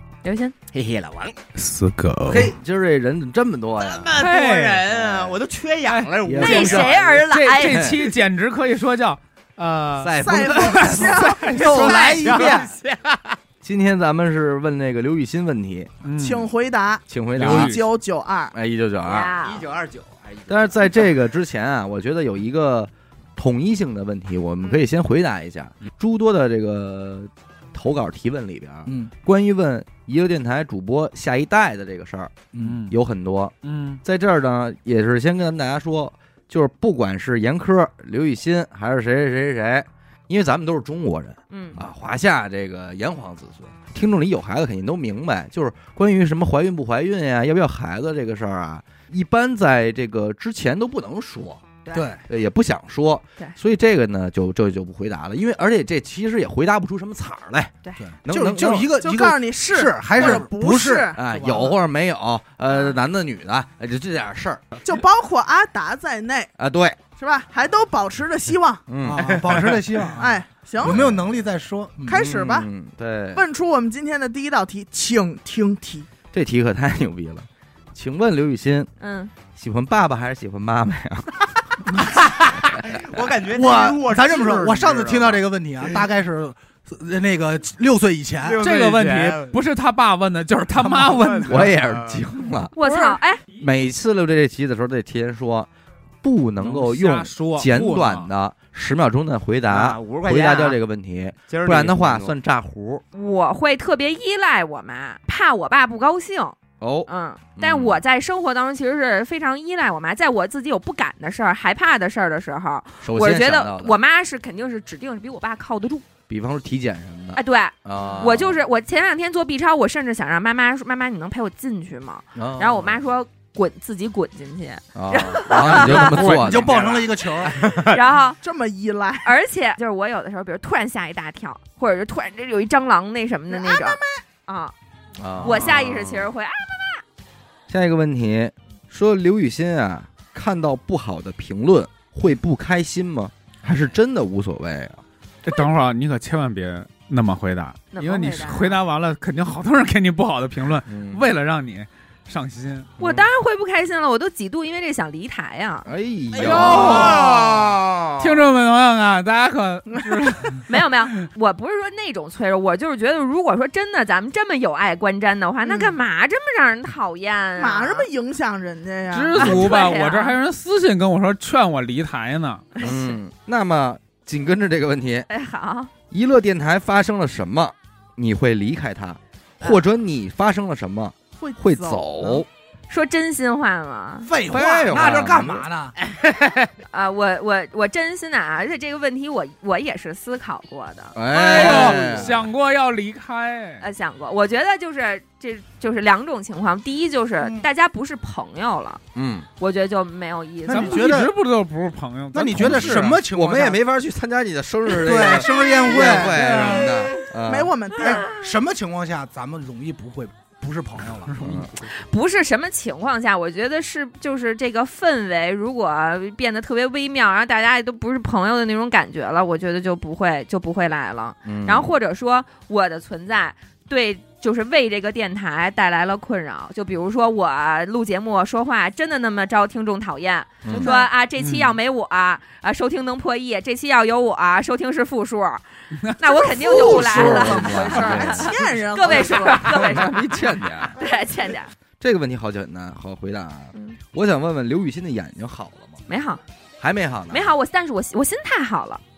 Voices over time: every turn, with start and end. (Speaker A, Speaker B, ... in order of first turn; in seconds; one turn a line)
Speaker A: 0.2-0.5
Speaker B: 0.7-1.4
Speaker C: 1.5-2.5
Speaker D: 2.3-4.2
Speaker B: 3.8-6.9
Speaker C: 4.2-4.9
Speaker D: 4.9-5.4
Speaker C: 5.8-12.5
Speaker D: 6.2-8.0
Speaker A: 6.4-7.9
Speaker D: 10.0-11.3
Speaker E: 10.2-11.7
Speaker F: 11.4-12.7
Speaker B: 11.6-13.4
Speaker D: 13.6-15.9
Speaker C: 16.0-16.5
Speaker E: 16.2-18.5
Speaker D: 17.1-17.8
Speaker C: 17.4-17.8
Speaker D: 18.5-19.3
Speaker A: 19.0-19.6
Speaker B: 19.4-20.9
Speaker D: 20.5-51.7
Speaker F: 28.9-29.1
Speaker F: 32.5-32.8
Speaker C: 32.6-33.0
Speaker C: 33.6-34.0
Speaker A: 41.5-41.8
Speaker F: 51.9-52.2
Speaker D: 52.3-58.9
Speaker F: 58.0-61.7
Speaker E: 58.6-61.2
Speaker D: 60.2-60.6
Speaker D: 61.1-64.6
Speaker E: 64.8-66.5
Speaker D: 66.6-67.0
Speaker E: 67.2-68.9
Speaker D: 68.9-69.7
Speaker F: 69.0-72.2
Speaker E: 70.2-71.1
Speaker D: 70.8-71.2
Speaker E: 72.0-72.7
Speaker D: 72.1-73.4
Speaker E: 73.3-76.1
Speaker D: 76.3-78.9
Speaker A: 79.0-79.3
Speaker D: 79.5-81.5
Speaker B: 82.2-85.4
Speaker F: 83.5-88.6
Speaker B: 88.4-89.5
Speaker C: 88.6-91.7
Speaker F: 90.8-91.1
Speaker B: 91.1-92.2
Speaker D: 91.5-92.7
Speaker A: 92.8-93.4
Speaker C: 92.8-93.2
Speaker D: 93.5-95.7
Speaker D: 96.2-103.0
Speaker C: 96.6-98.3
Speaker B: 99.7-100.8
Speaker B: 101.5-102.3
Speaker A: 103.1-106.5
Speaker D: 106.8-108.0
Speaker A: 107.1-116.0
Speaker D: 113.0-114.0
Speaker D: 116.3-118.6
Speaker A: 117.3-126.3
Speaker D: 122.3-123.0
Speaker D: 124.9-126.8
Speaker F: 126.0-127.7
Speaker B: 126.6-127.0
Speaker A: 127.7-128.4
Speaker E: 128.4-129.3
Speaker A: 129.2-134.7
Speaker E: 133.5-134.2
Speaker D: 135.2-136.3
Speaker A: 135.4-137.0
Speaker D: 137.7-145.0
Speaker C: 145.4-152.9
Speaker A: 147.9-148.8
Speaker D: 150.9-151.2
Speaker D: 153.0-153.3
Speaker A: 153.0-155.9
Speaker D: 155.8-158.0
Speaker B: 156.3-158.1
Speaker C: 156.5-157.5
Speaker E: 156.8-157.1
Speaker C: 158.2-160.7
Speaker A: 160.6-168.1
Speaker E: 165.6-165.9
Speaker E: 167.6-169.5
Speaker C: 169.1-172.7
Speaker A: 169.4-170.4
Speaker D: 169.4-169.7
Speaker D: 172.8-175.3
Speaker A: 175.3-175.9
Speaker D: 176.1-182.5
Speaker E: 181.4-182.4
Speaker A: 182.9-184.3
Speaker F: 184.2-185.9
Speaker D: 184.5-185.6
Speaker B: 186.0-186.7
Speaker A: 186.9-192.3
Speaker D: 191.1-192.5
Speaker C: 191.5-193.8
Speaker A: 193.8-199.0
Speaker D: 199.1-199.5
Speaker A: 199.6-201.0
Speaker C: 200.7-203.2
Speaker F: 200.7-201.3
Speaker F: 202.3-203.8
Speaker D: 202.6-207.7
Speaker F: 204.9-206.4
Speaker C: 206.4-206.8
Speaker E: 206.6-206.9
Speaker E: 207.4-208.3
Speaker F: 208.0-211.3
Speaker C: 211.3-211.9
Speaker D: 211.4-211.7
Speaker A: 211.9-240.4
Speaker D: 221.4-221.9
Speaker D: 230.6-230.9
Speaker E: 230.7-231.1
Speaker C: 231.4-231.7
Speaker E: 236.3-240.0
Speaker D: 236.6-238.6
Speaker D: 239.4-240.9
Speaker A: 240.9-241.7
Speaker D: 242.0-246.0
Speaker A: 246.1-246.4
Speaker D: 246.8-247.5
Speaker A: 247.3-249.0